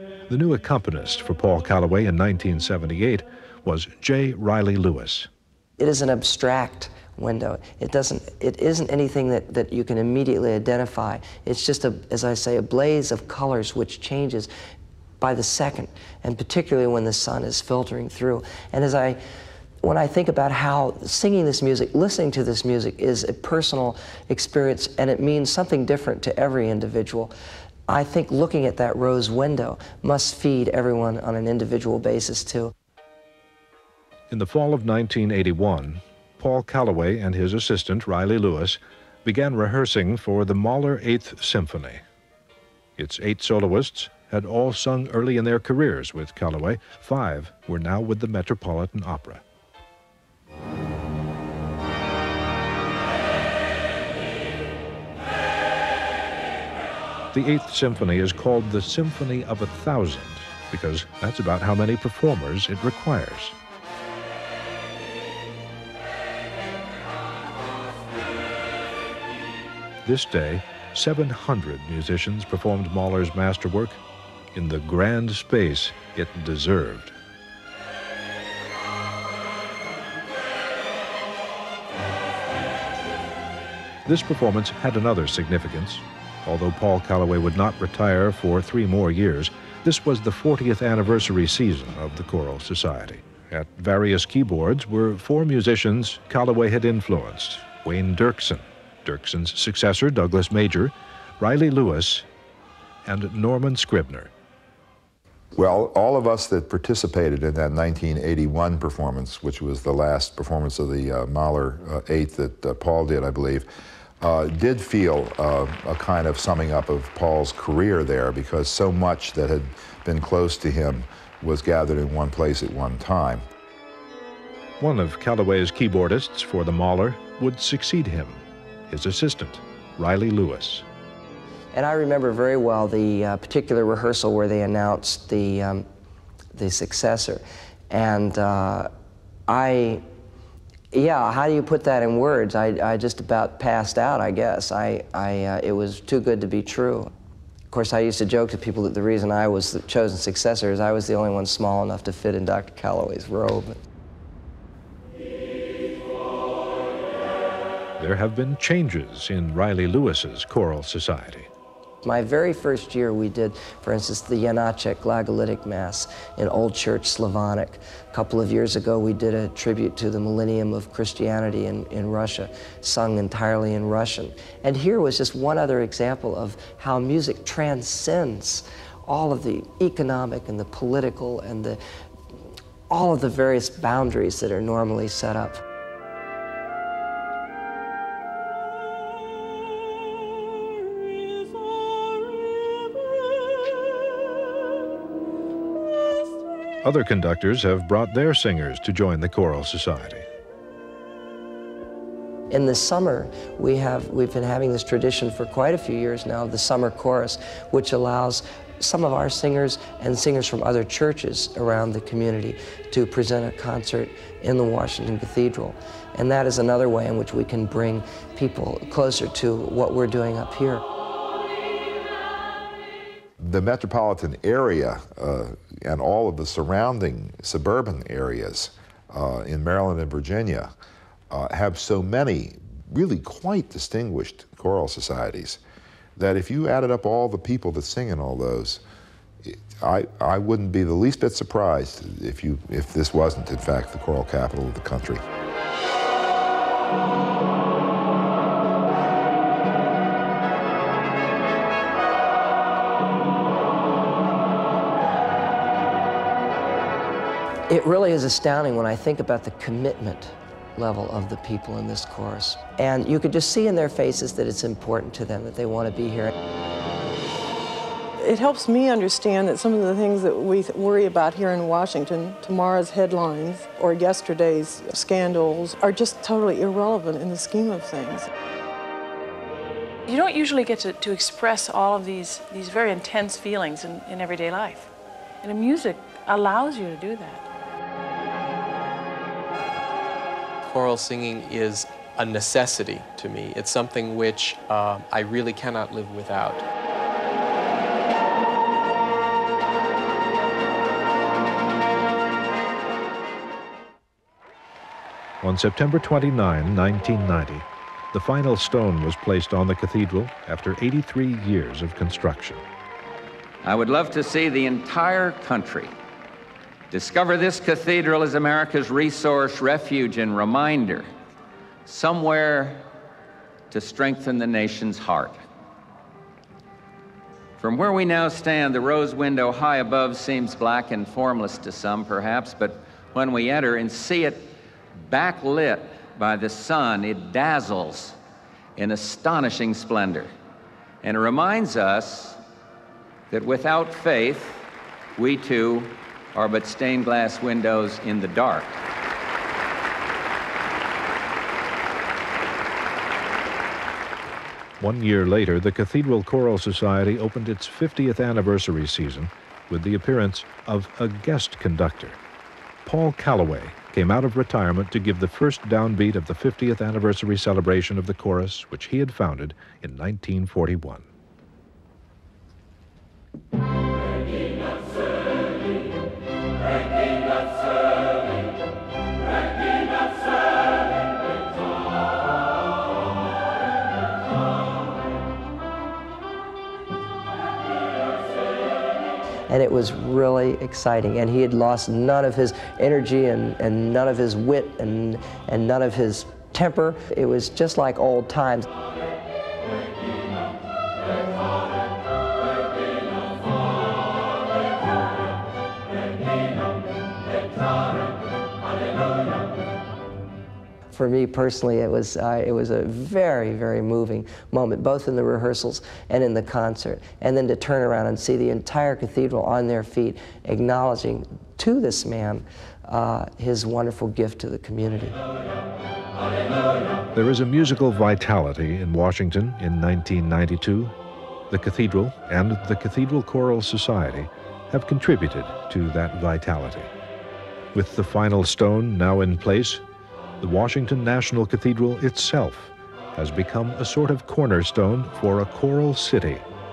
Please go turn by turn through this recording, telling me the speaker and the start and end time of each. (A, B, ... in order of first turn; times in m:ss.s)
0:00.3-0:05.3 A
0:05.8-0:14.5 B
0:15.2-0:19.2 B
0:19.8-0:27.3 B
0:27.9-0:32.7 B
0:34.3-0:42.0 A
0:43.0-0:49.4 A
0:57.3-1:03.5 A
1:10.0-1:14.0 A
1:14.5-1:17.1 A
1:24.0-1:42.2 A
1:43.0-1:44.3 A
1:45.5-1:53.7 C
1:54.2-2:03.4 C
2:04.8-2:10.8 A
2:11.7-2:15.8 B
2:16.5-2:18.9 B
2:19.5-2:20.0 B
2:20.9-2:27.1 B
2:27.7-2:33.8 B
2:38.0-2:41.5 A
2:42.0-3:01.8 B
3:02.9-3:05.6 B
3:16.8-3:20.2 A
3:22.5-3:40.8 B
3:43.4-3:50.7 C
3:51.3-3:55.6 C
3:56.2-3:58.8 C
3:59.4-4:05.2 C
4:17.7-4:26.3 B
4:28.2-4:38.3 D
4:40.1-4:44.9 E
4:45.4-4:47.4 E
4:50.6-4:56.6 F
5:05.4-5:12.6 A
5:13.6-5:15.9 G
5:16.9-5:21.1 G
5:21.8-5:22.8 G
5:23.7-5:25.4 G
5:27.6-5:34.5 G
5:35.1-5:38.2 G
5:38.8-5:40.3 G
5:41.0-5:42.4 G
5:43.3-5:44.6 G
5:45.2-5:48.8 G
5:54.8-6:02.2 A
6:02.8-6:11.1 A
6:29.5-6:38.6 B
6:50.9-7:05.2 B
7:07.1-7:10.9 A
7:11.5-7:16.9 A
7:17.7-7:19.8 A
7:20.4-7:26.4 A